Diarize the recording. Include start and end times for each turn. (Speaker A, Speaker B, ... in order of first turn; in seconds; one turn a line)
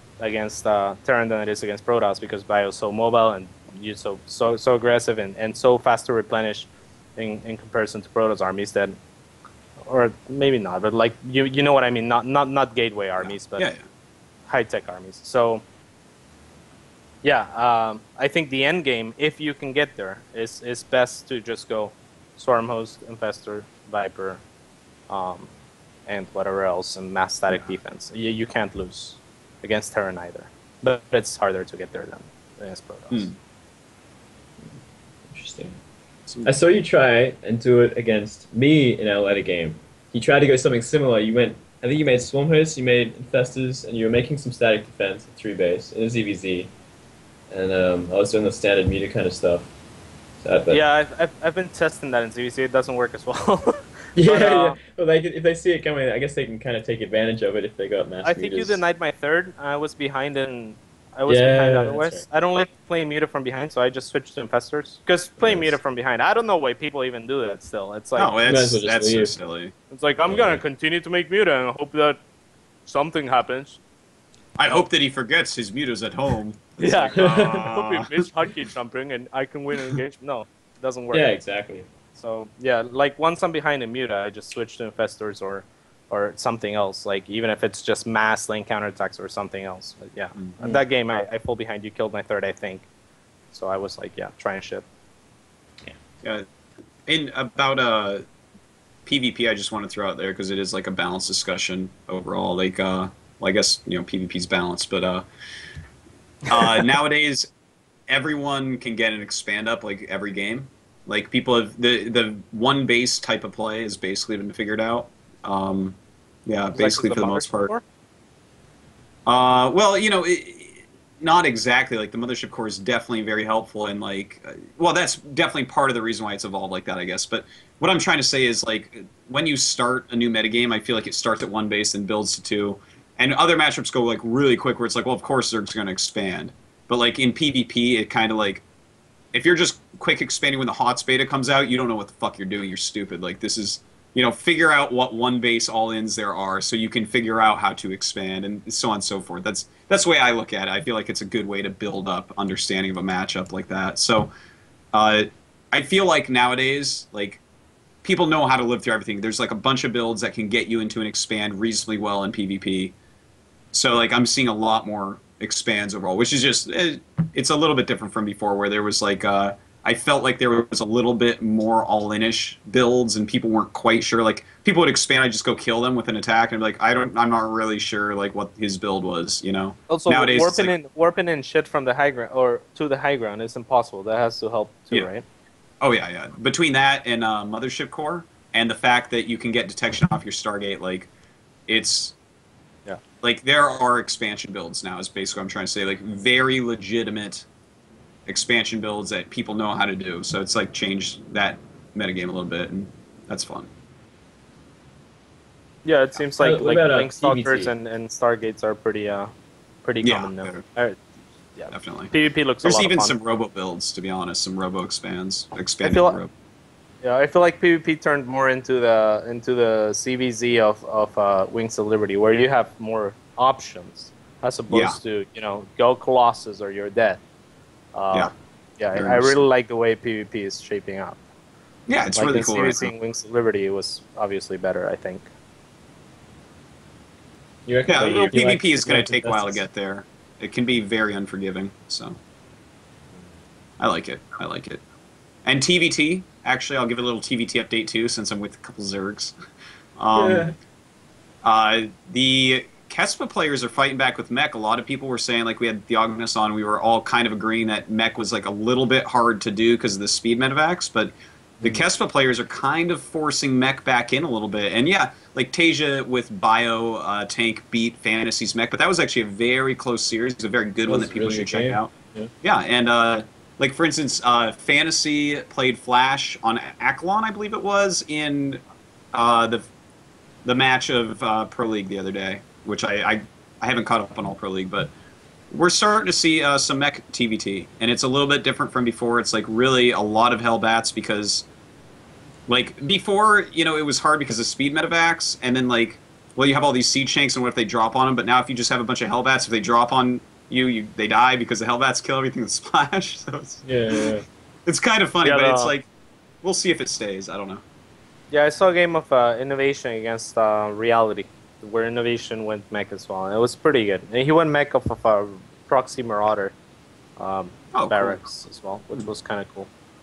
Speaker A: 0.2-8.9
Speaker A: 9.8-13.7
Speaker B: 13.2-13.8
Speaker A: 14.5-15.6
Speaker A: 17.2-24.4
Speaker A: 25.1-25.5
Speaker A: 26.1-33.3
Speaker C: 35.3-35.8
Speaker C: 36.4-46.7
Speaker C: 47.5-49.7
Speaker C: 50.4-50.8
Speaker A: 50.7-54.8
Speaker C: 54.1-58.8
Speaker A: 58.2-68.3
Speaker C: 61.3-62.2
Speaker C: 65.4-65.8
Speaker B: 68.2-69.7
Speaker C: 68.4-69.3
Speaker A: 69.9-72.2
Speaker C: 70.3-70.6
Speaker A: 72.9-73.8
Speaker B: 74.6-78.2
Speaker A: 76.8-81.3
Speaker C: 77.2-77.6
Speaker C: 81.1-81.9
Speaker A: 82.1-92.8
Speaker A: 93.5-94.8
Speaker B: 97.1-98.2
Speaker B: 99.0-105.2
Speaker B: 106.5-107.5
Speaker B: 108.1-117.7
Speaker A: 116.7-117.8
Speaker B: 119.2-138.6
Speaker B: 139.3-154.3
Speaker B: 154.9-157.4
Speaker B: 158.0-162.9
Speaker B: 163.7-180.7
Speaker A: 179.9-185.2
Speaker B: 185.8-191.1
Speaker B: 191.7-192.1
Speaker B: 193.2-197.4
Speaker B: 198.3-203.7
Speaker A: 205.8-209.3
Speaker C: 206.4-207.7
Speaker A: 209.8-211.0
Speaker B: 210.0-210.6
Speaker A: 211.6-213.1
Speaker B: 211.7-212.1
Speaker B: 212.6-216.3
Speaker A: 215.8-216.2
Speaker A: 217.0-227.2
Speaker B: 224.7-225.0
Speaker A: 227.9-231.2
Speaker B: 228.9-229.4
Speaker B: 231.9-232.9
Speaker A: 232.1-235.3
Speaker C: 237.7-239.7
Speaker B: 237.9-242.2
Speaker B: 243.8-244.8
Speaker B: 245.4-249.3
Speaker B: 250.0-250.5
Speaker C: 250.1-250.5
Speaker B: 251.4-271.9
Speaker C: 270.9-272.3
Speaker B: 272.4-278.6
Speaker B: 279.1-279.7
Speaker B: 280.4-284.9
Speaker B: 285.5-291.4
Speaker B: 292.5-304.1
Speaker C: 303.6-304.2
Speaker B: 304.6-305.9
Speaker A: 305.2-305.7
Speaker B: 306.4-307.6
Speaker A: 308.3-316.5
Speaker A: 317.2-319.7
Speaker B: 317.7-318.2